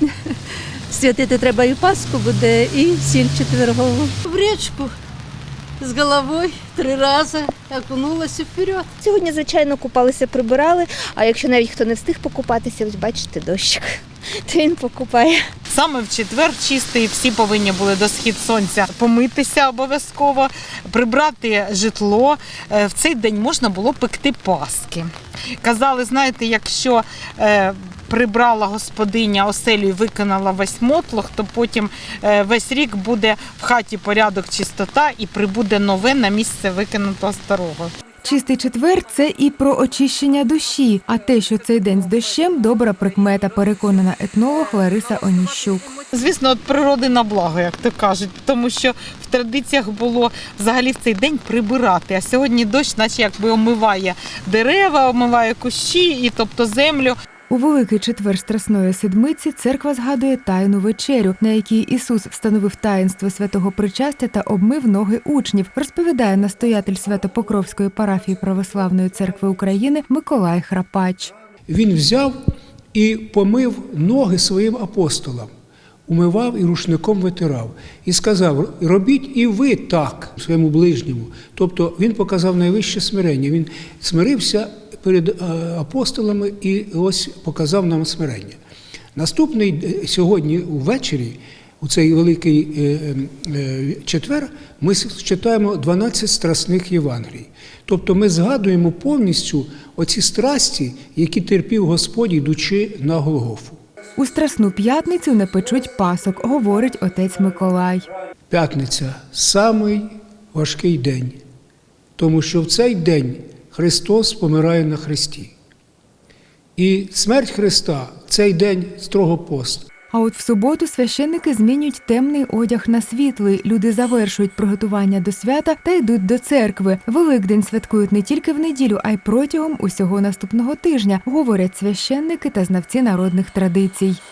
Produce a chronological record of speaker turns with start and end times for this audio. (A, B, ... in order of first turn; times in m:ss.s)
0:00.9-0:04.1 A
0:01.5-0:01.8 B
0:04.2-0:04.9 B
0:05.8-0:08.9 B
0:09.0-0:15.4 C
0:15.7-0:25.1 D
0:25.6-0:37.9 D
0:38.2-0:45.9 E
0:46.1-0:57.2 D
0:57.5-1:11.3 E
1:11.7-1:12.4 F
1:12.9-1:15.5 F
1:16.1-1:28.6 F
1:29.1-1:43.8 F
1:44.2-1:48.1 E
1:48.5-1:51.4 F
1:52.2-1:55.5 F
1:56.8-1:59.9 F
2:00.1-2:14.2 E